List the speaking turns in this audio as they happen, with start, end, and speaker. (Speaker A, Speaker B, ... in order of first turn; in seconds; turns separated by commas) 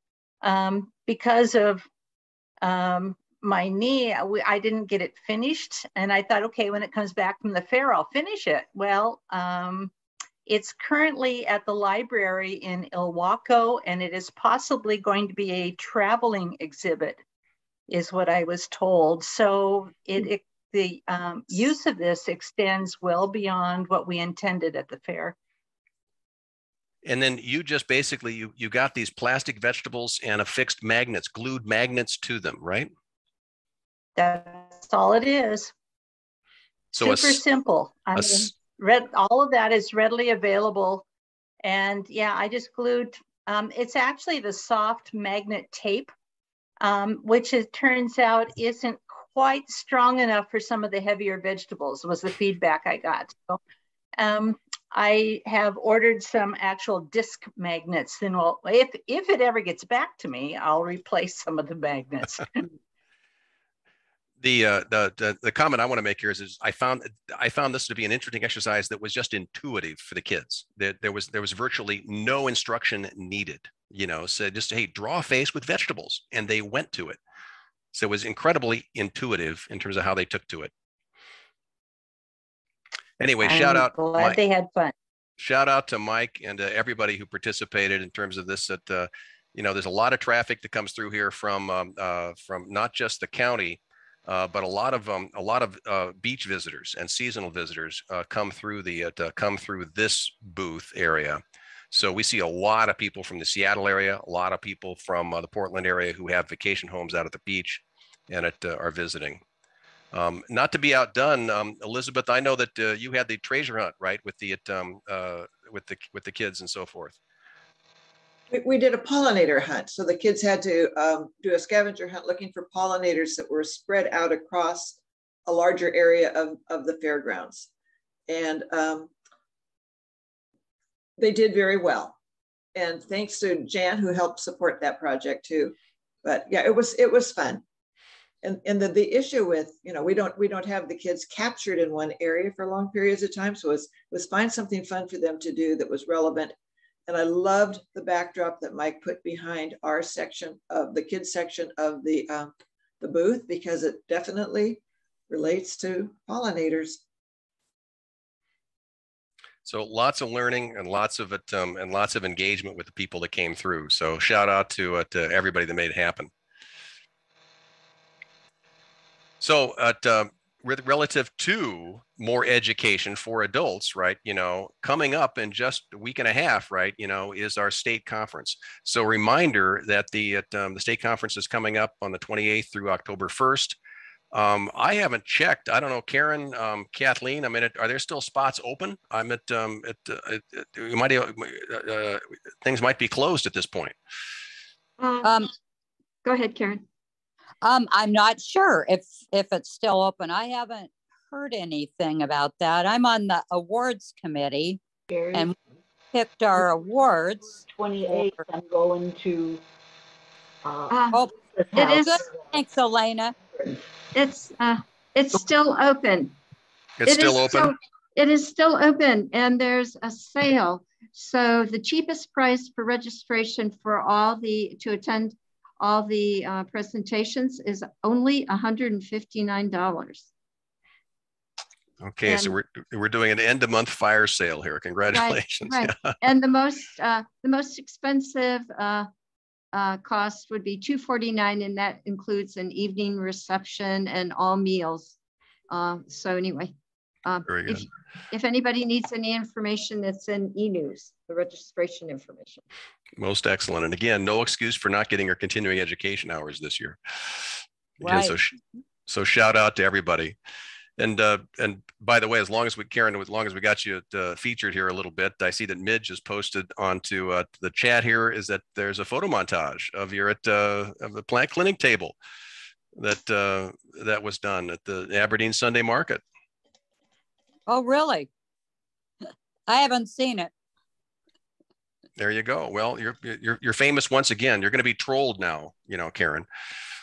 Speaker A: 0.4-1.9, Speaker A: 2.6-9.9, Speaker A: 10.5-17.2, Speaker A: 17.9-25.4, Speaker B: 27.1-32.9, Speaker A: 34.2-35.7, Speaker B: 36.9-37.4, Speaker A: 37.0-41.0, Speaker B: 38.1-38.5, Speaker A: 41.6-46.1, Speaker A: 46.8-53.6, Speaker A: 54.1-62.7, Speaker B: 64.4-77.2, Speaker B: 77.9-80.7, Speaker B: 83.2-84.4, Speaker A: 83.4-84.9, Speaker B: 85.4-109.4, Speaker B: 110.1-117.2, Speaker C: 118.5-127.7, Speaker C: 128.3-129.1, Speaker C: 131.2-132.2, Speaker C: 132.8-137.6, Speaker C: 138.4-146.5, Speaker C: 147.1-157.0, Speaker B: 159.7-166.3, Speaker B: 169.4-183.8, Speaker B: 184.3-193.9, Speaker D: 195.0-195.3, Speaker E: 195.2-195.5, Speaker D: 196.2-196.8, Speaker E: 197.6-204.8, Speaker F: 205.1-205.6, Speaker E: 206.1-207.6, Speaker F: 207.7-209.6, Speaker F: 210.7-211.0, Speaker D: 210.9-211.2, Speaker E: 211.1-213.3, Speaker F: 211.6-212.4, Speaker D: 211.8-212.2, Speaker D: 214.1-216.3, Speaker B: 217.0-217.7, Speaker D: 217.1-230.3, Speaker B: 232.0-236.2, Speaker D: 232.3-232.5, Speaker D: 235.1-239.1, Speaker D: 239.7-245.1, Speaker D: 245.7-246.7, Speaker D: 247.2-252.6, Speaker B: 247.5-247.8, Speaker B: 253.2-258.6, Speaker E: 258.0-258.4, Speaker B: 259.1-260.4, Speaker B: 261.0-272.2, Speaker B: 273.0-276.2, Speaker E: 277.7-278.3, Speaker E: 279.7-280.5, Speaker B: 282.2-286.5